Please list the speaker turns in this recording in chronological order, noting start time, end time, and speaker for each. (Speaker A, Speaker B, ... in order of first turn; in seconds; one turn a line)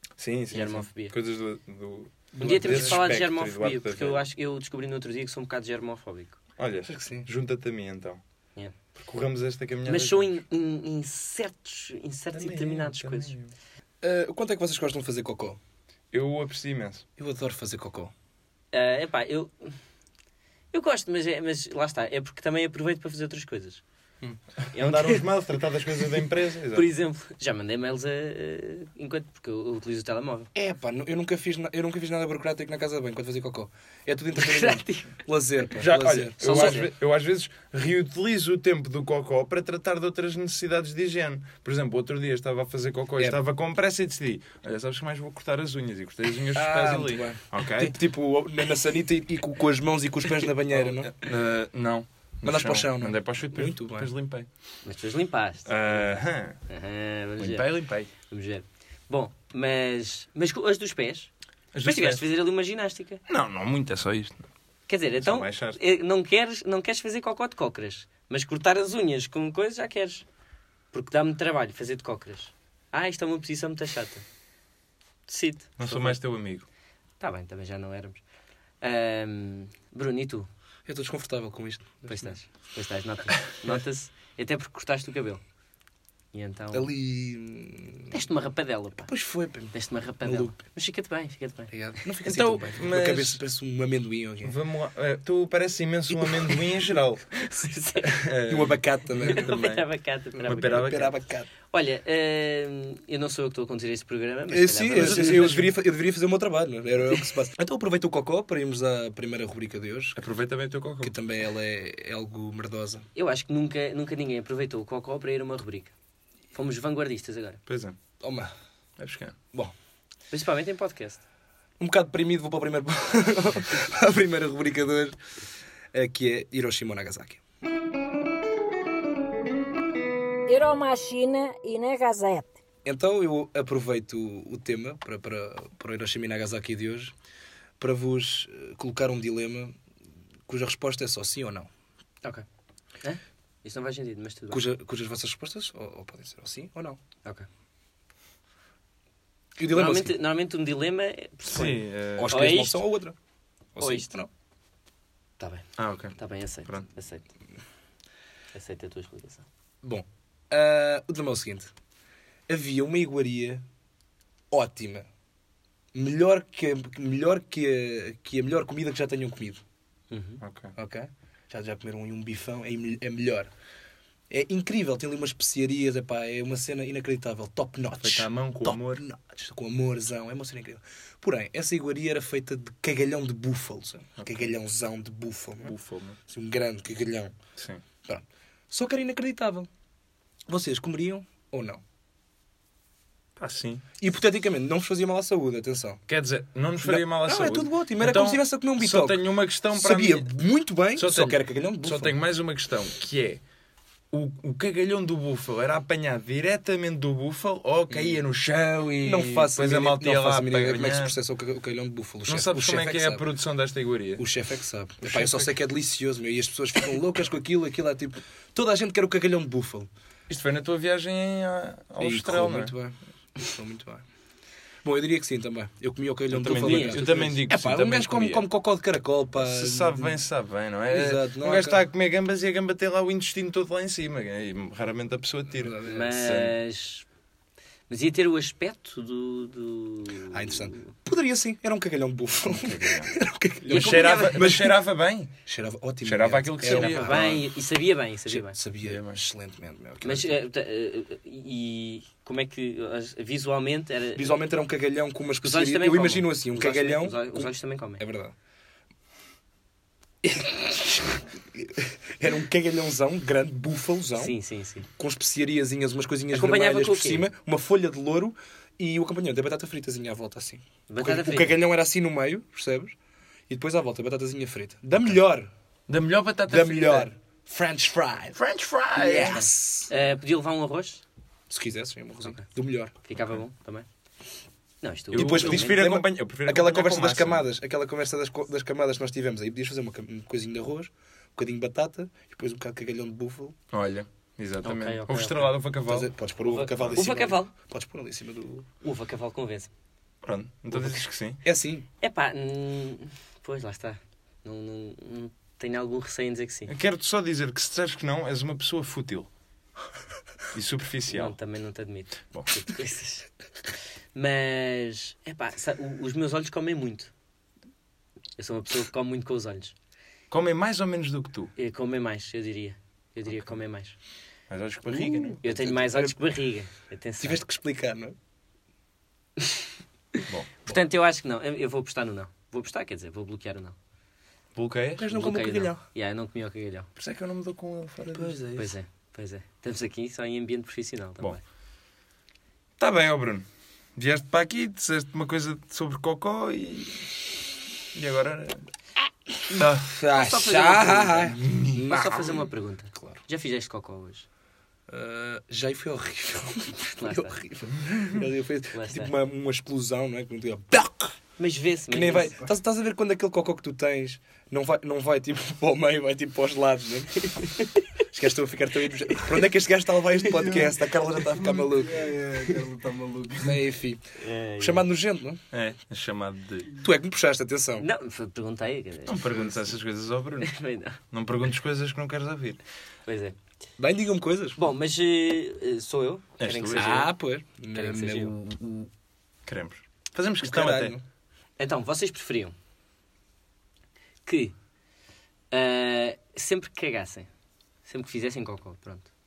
Speaker A: 0.2-4.2
Speaker B: 0.5-1.1
Speaker C: 2.4-3.1
Speaker B: 2.4-6.4
Speaker A: 6.6-8.2
Speaker C: 6.9-7.3
Speaker A: 8.9-10.4
Speaker B: 9.8-13.3
Speaker A: 12.3-13.5
Speaker C: 14.0-15.6
Speaker A: 16.1-17.0
Speaker C: 17.2-18.1
Speaker B: 18.7-19.8
Speaker B: 20.7-23.8
Speaker A: 24.7-26.9
Speaker B: 24.7-25.3
Speaker B: 26.7-30.5
Speaker C: 30.5-36.8
Speaker B: 34.4-35.1
Speaker A: 35.8-47.9
Speaker B: 36.4-36.9
Speaker C: 46.5-51.2
Speaker A: 50.7-54.5
Speaker C: 52.4-54.1
Speaker B: 54.8-61.3
Speaker A: 55.6-56.6
Speaker A: 57.4-58.1
Speaker A: 61.7-62.2
Speaker B: 61.8-63.2
Speaker A: 63.3-64.4
Speaker B: 64.9-70.2
Speaker A: 65.2-65.8
Speaker B: 70.9-74.2
Speaker B: 75.3-76.2
Speaker A: 75.8-76.7
Speaker B: 77.2-78.2
Speaker B: 78.8-80.5
Speaker C: 80.9-82.3
Speaker B: 82.0-85.4
Speaker B: 86.3-86.9
Speaker C: 86.7-88.2
Speaker B: 88.1-89.1
Speaker C: 89.1-90.5
Speaker B: 89.7-91.7
Speaker C: 91.7-94.5
Speaker A: 92.2-93.4
Speaker A: 94.4-97.4
Speaker C: 96.1-96.5
Speaker B: 97.3-98.2
Speaker A: 98.0-99.9
Speaker C: 98.5-99.5
Speaker B: 99.2-101.0
Speaker C: 100.4-101.5
Speaker A: 100.4-101.1
Speaker B: 101.7-105.5
Speaker C: 104.5-110.2
Speaker A: 104.9-105.7
Speaker A: 110.2-111.1
Speaker C: 111.0-113.0
Speaker B: 113.1-115.9
Speaker B: 116.5-117.6
Speaker A: 117.7-118.0
Speaker C: 118.2-118.5
Speaker A: 119.0-119.3
Speaker B: 120.3-121.2
Speaker C: 121.8-125.2
Speaker C: 125.9-127.4
Speaker D: 130.5-132.5
Speaker C: 132.8-137.1
Speaker C: 137.8-139.8
Speaker C: 140.5-141.7
Speaker B: 143.0-144.6
Speaker C: 144.5-147.0
Speaker C: 149.6-150.2
Speaker B: 149.7-152.8
Speaker A: 151.5-152.4
Speaker C: 151.5-153.2
Speaker C: 153.8-154.3
Speaker B: 153.8-154.1
Speaker B: 155.4-157.3
Speaker A: 155.8-156.1
Speaker B: 158.5-159.4
Speaker C: 159.8-161.7
Speaker C: 162.5-163.6
Speaker C: 164.5-165.1
Speaker C: 165.9-169.6
Speaker B: 170.1-170.4
Speaker A: 170.4-170.7
Speaker C: 170.8-173.5
Speaker C: 174.3-185.8
Speaker A: 178.0-179.0
Speaker A: 184.2-184.5
Speaker A: 185.6-186.2
Speaker C: 186.3-187.3
Speaker A: 187.6-187.8
Speaker C: 188.0-189.7
Speaker C: 190.5-191.8
Speaker A: 193.4-193.8
Speaker C: 194.0-196.0
Speaker A: 196.1-200.3
Speaker C: 196.8-202.2
Speaker A: 200.9-203.4
Speaker A: 204.1-211.2
Speaker C: 207.9-208.2
Speaker C: 209.0-213.3
Speaker A: 212.2-214.2
Speaker C: 214.2-219.9
Speaker A: 215.0-215.5
Speaker A: 220.3-222.8
Speaker C: 222.0-224.0
Speaker C: 224.8-230.2
Speaker A: 226.3-228.5
Speaker B: 226.4-227.3
Speaker A: 229.4-236.5
Speaker C: 230.9-231.8
Speaker C: 235.5-236.2
Speaker B: 235.9-237.1
Speaker B: 237.9-240.8
Speaker C: 240.3-244.8
Speaker A: 242.5-243.1
Speaker A: 243.7-245.3
Speaker B: 243.7-244.5
Speaker C: 245.5-247.3
Speaker A: 246.0-247.5
Speaker B: 246.6-248.6
Speaker C: 248.3-250.4
Speaker A: 248.8-249.2
Speaker B: 250.0-254.4
Speaker C: 254.1-258.3
Speaker B: 255.4-258.0
Speaker C: 260.2-264.4
Speaker B: 264.1-264.9
Speaker C: 264.9-272.9
Speaker B: 266.3-267.3
Speaker B: 270.9-271.6
Speaker C: 273.5-275.5
Speaker A: 275.9-277.1
Speaker C: 276.5-278.4
Speaker A: 278.4-279.5
Speaker C: 279.0-279.9
Speaker B: 279.0-281.0
Speaker C: 281.5-282.9
Speaker B: 283.0-283.9
Speaker B: 284.8-285.8
Speaker A: 285.1-287.5
Speaker C: 285.1-293.6
Speaker A: 293.7-296.1
Speaker B: 294.6-295.5
Speaker C: 295.9-298.6
Speaker B: 296.4-297.5
Speaker A: 296.8-297.0
Speaker B: 298.8-299.7
Speaker A: 300.2-301.4
Speaker C: 300.8-301.9
Speaker B: 302.0-306.7
Speaker A: 306.7-309.3
Speaker A: 310.5-311.4
Speaker B: 311.1-313.3
Speaker B: 314.1-317.1
Speaker B: 318.4-319.7
Speaker A: 320.3-321.5
Speaker B: 321.6-324.0
Speaker A: 324.5-325.4
Speaker C: 324.9-326.2
Speaker B: 325.4-327.4
Speaker C: 327.2-328.1
Speaker B: 330.1-333.8
Speaker A: 334.5-335.1
Speaker C: 335.0-335.8
Speaker B: 335.1-336.9
Speaker A: 337.0-338.4
Speaker C: 338.1-338.7
Speaker B: 338.5-341.4
Speaker A: 342.8-347.1
Speaker A: 347.9-348.6
Speaker A: 349.5-349.9
Speaker C: 349.6-353.2
Speaker B: 350.1-354.2
Speaker A: 351.4-351.8
Speaker C: 354.9-361.1
Speaker B: 356.8-357.4
Speaker B: 358.7-359.1
Speaker B: 361.4-362.4
Speaker C: 361.9-367.5
Speaker B: 367.4-367.8
Speaker C: 368.0-372.1
Speaker E: 370.3-373.6
Speaker C: 373.4-374.0
Speaker B: 374.2-374.9
Speaker C: 374.6-375.4
Speaker A: 375.5-376.9
Speaker C: 376.8-377.9
Speaker B: 377.8-379.5
Speaker A: 379.1-380.5
Speaker B: 380.4-381.0
Speaker A: 381.1-382.6
Speaker B: 383.1-383.4
Speaker C: 383.8-384.6
Speaker B: 384.6-387.1
Speaker A: 386.4-386.9
Speaker C: 386.7-388.9
Speaker B: 387.7-388.4
Speaker A: 389.5-391.0
Speaker C: 390.4-391.0
Speaker B: 391.6-392.5
Speaker B: 394.2-394.5
Speaker B: 395.5-397.3
Speaker B: 397.9-399.1